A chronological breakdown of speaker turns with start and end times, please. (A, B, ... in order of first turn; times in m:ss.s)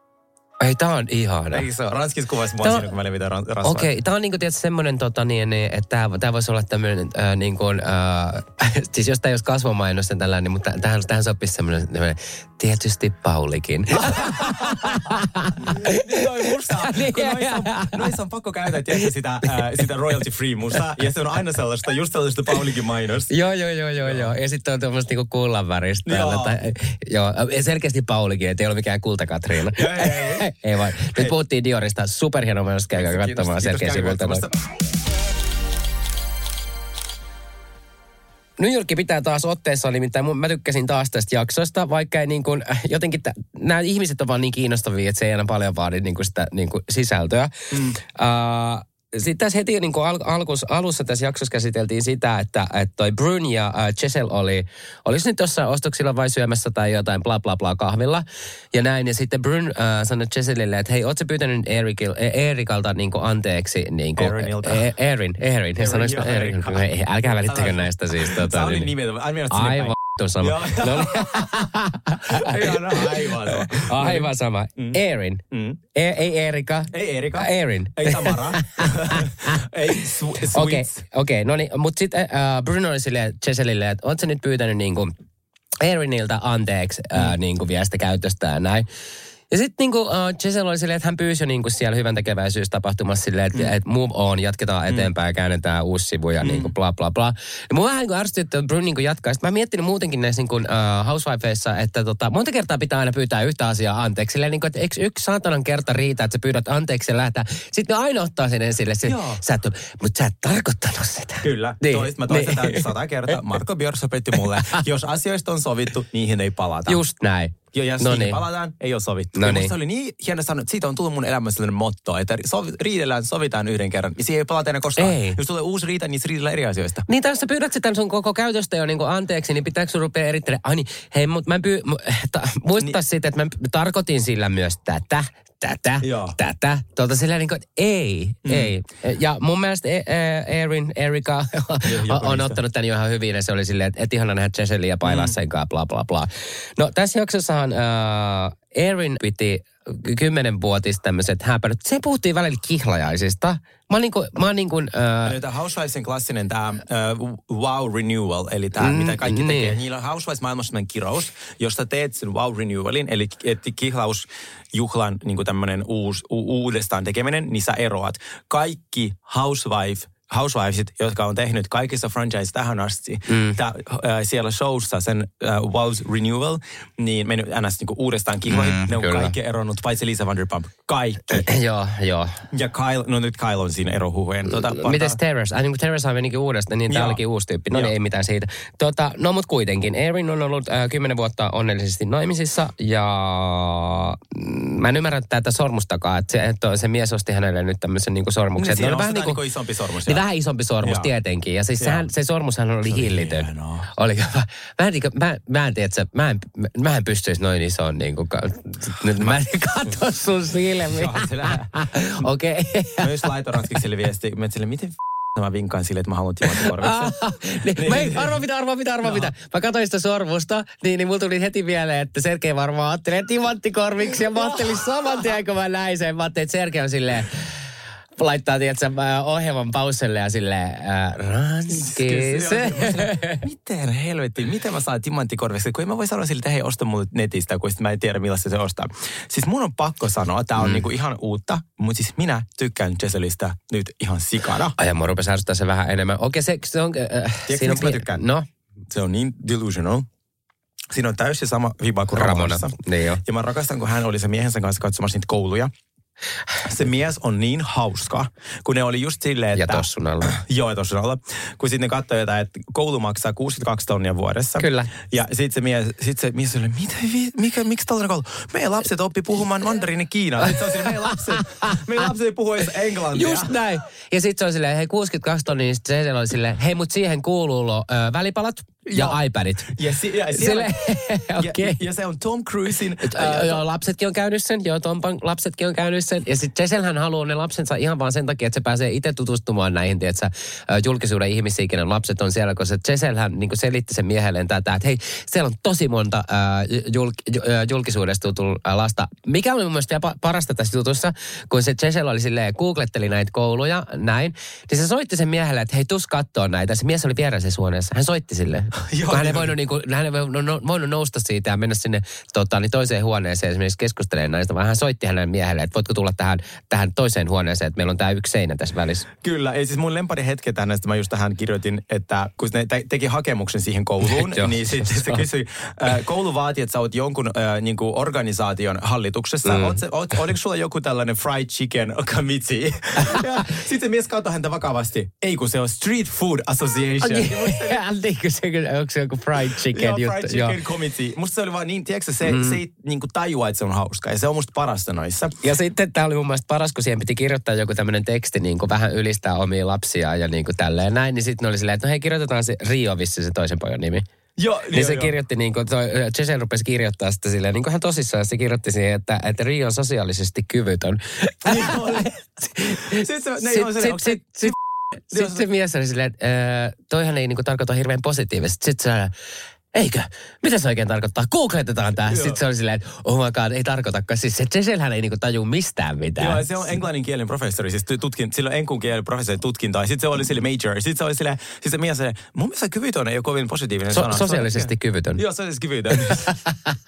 0:00.6-0:01.6 A
0:01.5-0:03.9 B
0:02.6-0:02.9 A
0:03.6-0:16.2 A
0:14.0-0:23.3 B
0:16.8-0:18.0 A
0:23.3-0:34.4 A
0:24.0-0:24.3 B
0:26.0-0:26.6 B
0:29.7-0:30.5 B
0:32.9-0:34.6 B
0:38.6-1:08.9 A
0:47.7-0:48.0 B
1:04.2-1:04.9 B
1:05.8-1:06.9 B
1:07.4-1:11.5 B
1:09.5-1:15.4 A
1:12.3-1:15.0 B
1:15.5-1:15.8 B
1:15.9-1:19.6 A
1:16.9-1:21.0 B
1:20.5-1:25.1 A
1:25.8-1:28.8 A
1:29.5-1:53.4 A
1:36.4-1:36.7 B
1:49.0-1:49.4 B
1:51.4-1:57.0 B
1:56.9-1:58.4 A
1:57.7-2:07.0 B
1:59.4-1:59.7 A
2:05.0-2:05.4 A
2:07.1-2:35.4 A
2:16.0-2:16.4 B
2:18.4-2:18.7 B
2:21.8-2:22.6 B
2:25.0-2:25.3 B
2:35.2-3:01.5 B
2:38.8-2:39.8 A
2:53.3-2:53.6 A
2:58.5-2:59.3 A
3:01.3-3:02.4 A
3:02.5-3:05.2 B
3:04.4-3:19.4 A
3:06.9-3:07.9 B
3:18.6-3:20.2 B
3:20.1-3:33.1 A
3:20.8-3:21.1 B
3:21.8-3:22.1 B
3:22.8-3:23.9 B
3:30.9-3:31.9 B
3:33.0-3:37.1 B
3:36.6-3:47.5 A
3:37.7-3:38.3 B
3:39.0-3:39.3 B
3:44.0-3:45.3 B
3:48.2-3:53.4 A
3:51.7-4:04.7 B
4:00.6-4:00.8 A
4:04.8-4:08.5 A
4:07.5-4:08.2 B
4:08.9-4:10.1 B
4:10.9-4:15.7 B
4:12.1-4:13.2 A
4:16.6-4:33.5 B
4:19.5-4:20.4 A
4:24.6-4:24.9 A
4:31.2-4:31.8 A
4:33.1-4:39.7 A
4:38.8-4:40.7 B
4:40.3-4:41.8 A
4:41.4-4:43.6 B
4:43.0-5:19.1 A
5:08.8-5:09.5 B
5:19.2-5:37.8 B
5:24.0-5:25.2 A
5:29.4-5:29.8 A
5:37.0-5:40.6 A
5:39.7-5:45.3 B
5:42.2-5:42.6 A
5:45.4-5:54.0 A
5:54.4-5:55.1 B
5:54.7-6:04.5 A
6:01.4-6:02.1 B
6:02.9-6:04.6 B
6:05.1-6:09.1 A
6:05.1-6:05.4 B
6:09.7-6:16.4 A
6:12.0-6:12.4 B
6:16.2-6:26.4 B
6:23.9-6:25.2 A